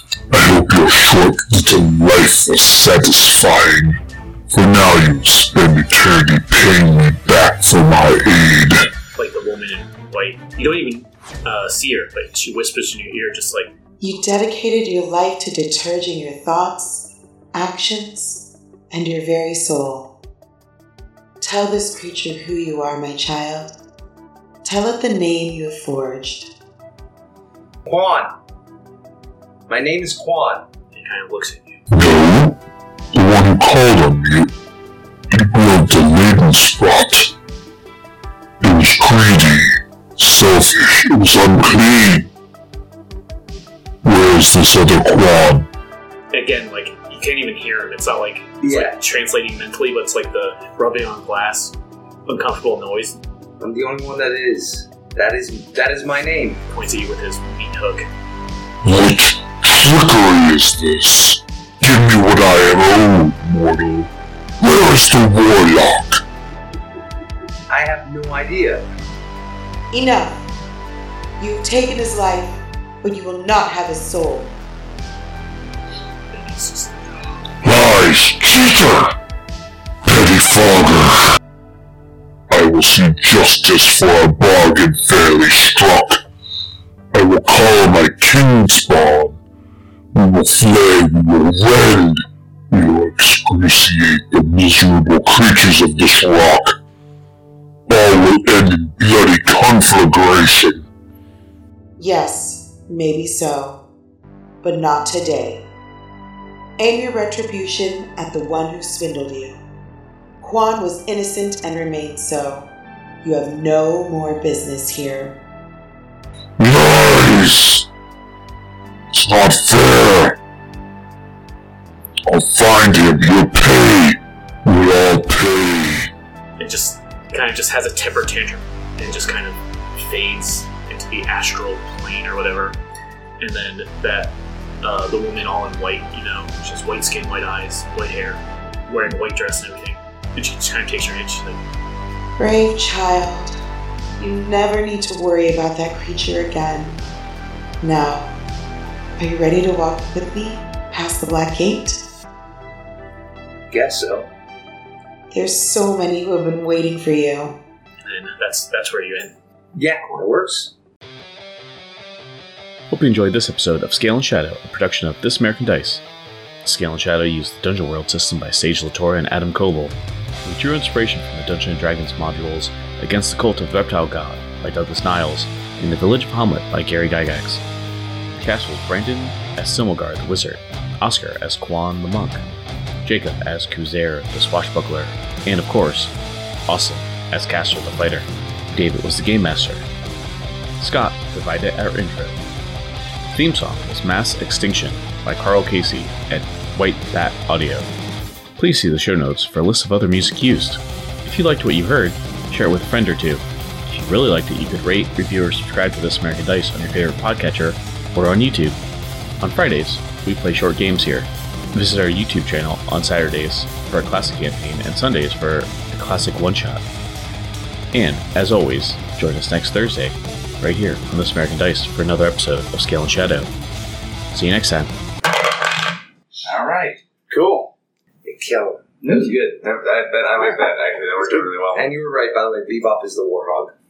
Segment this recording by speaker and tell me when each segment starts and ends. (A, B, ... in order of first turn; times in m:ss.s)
0:00.3-0:08.9 A
0:09.2-0:13.7 B
0:14.0-0:20.1 C
0:21.4-0:23.7 C
0:24.6-0:26.5 C
0:27.8-0:28.3 D
0:29.7-0:30.7 D
0:30.9-0:31.8 B
0:31.9-0:32.6 A
0:33.1-0:34.5 A
0:35.3-0:37.3 A
0:38.6-0:42.3 A
0:44.0-0:45.7 A
0:46.3-0:51.7 B
0:48.6-0:49.0 D
0:52.3-0:53.2 B
0:53.6-0:56.6 D
0:56.7-0:58.1 B
0:58.8-1:04.1 A
1:04.6-1:06.2 A
1:07.7-1:08.9 D
1:09.9-1:10.4 C
1:11.4-1:14.6 C
1:16.3-1:17.3 B
1:17.6-1:19.2 A
1:20.0-1:21.3 A
1:22.5-1:26.2 A
1:27.1-1:29.4 A
1:30.1-1:36.8 A
1:37.9-1:40.9 A
1:42.0-1:43.8 C
1:44.6-1:45.6 C
1:46.8-1:49.6 C
1:50.4-1:52.7 C
1:53.2-1:55.4 C
1:56.6-1:57.9 A
1:59.1-2:00.4 A
2:02.3-2:06.1 A
2:06.6-2:12.8 B
2:13.4-2:21.6 B
2:22.4-2:23.6 C
2:24.2-2:27.0 C
2:27.8-2:28.3 C
2:29.2-2:32.0 C
2:33.7-2:34.3 D
2:35.3-2:37.6 C
2:38.0-2:39.4 B
2:39.8-2:40.7 D
2:40.0-2:40.2 B
2:42.9-2:46.0 E
2:46.6-2:57.6 E
2:58.3-3:02.4 E
3:03.0-3:06.1 E
3:06.7-3:09.9 E
3:10.8-3:12.4 E
3:13.3-3:17.9 E
3:18.6-3:28.8 E
3:29.4-3:36.8 E
3:37.9-3:43.5 E
3:44.3-3:44.9 E
3:46.4-3:47.7 F
3:48.2-3:49.6 D
3:49.0-3:51.9 F
3:51.7-3:53.7 D